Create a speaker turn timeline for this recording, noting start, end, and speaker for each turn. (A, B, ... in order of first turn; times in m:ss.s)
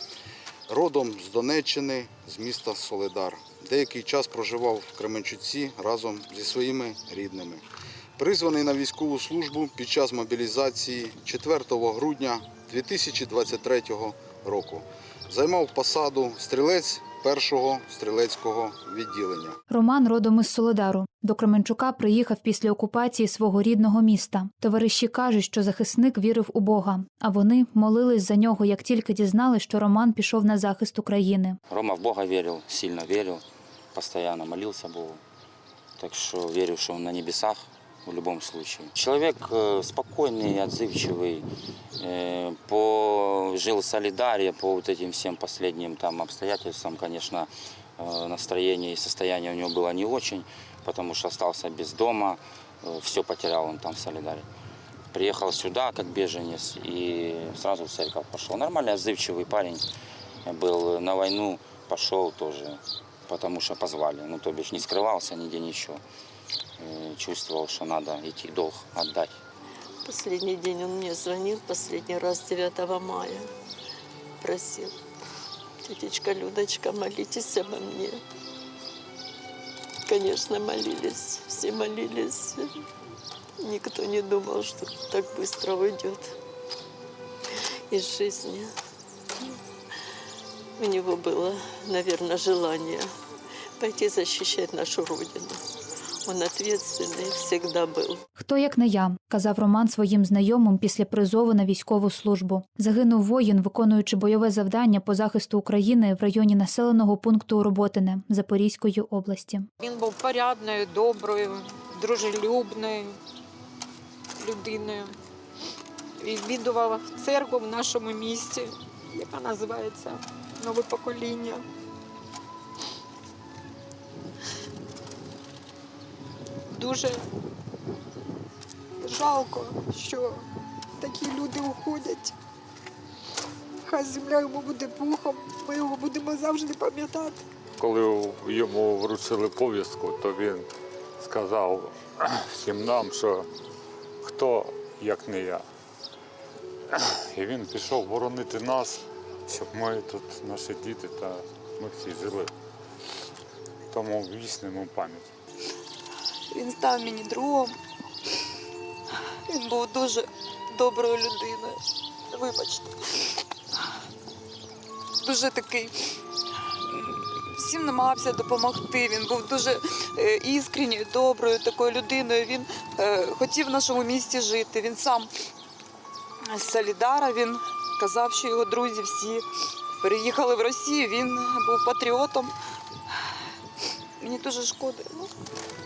0:00.7-0:07.6 A
0:08.2-0:19.6 A
0:19.7-0:31.6 B
0:31.7-0:33.4 C
0:33.9-0:35.2 C
0:36.0-0:41.5 C
0:42.0-0:54.5 C
0:55.1-0:59.8 C
1:00.4-1:06.0 C
1:06.8-1:09.4 C
1:10.0-1:13.5 D
1:14.4-1:15.0 D
1:15.8-1:18.2 D
1:20.1-1:22.7 D
1:23.6-1:26.3 D
1:27.9-1:28.7 D
1:30.8-1:33.1 D
1:33.8-1:35.6 D
1:36.3-1:38.2 D
1:38.4-1:49.7 B
1:49.8-1:53.2 E
1:54.4-1:55.1 E
1:56.2-2:01.7 E
2:06.7-2:07.2 E
2:09.0-2:10.4 E
2:11.0-2:12.3 E
2:13.9-2:17.4 E
2:17.8-2:20.7 F
2:21.2-2:23.5 F
2:24.2-2:25.6 F
2:26.9-2:32.5 F
2:33.9-2:35.3 F
2:36.5-2:37.8 G
2:39.5-2:43.3 G
2:45.2-2:46.1 G
2:46.9-2:55.3 G
2:56.5-2:59.5 G
3:00.0-3:02.5 G
3:04.2-3:05.3 G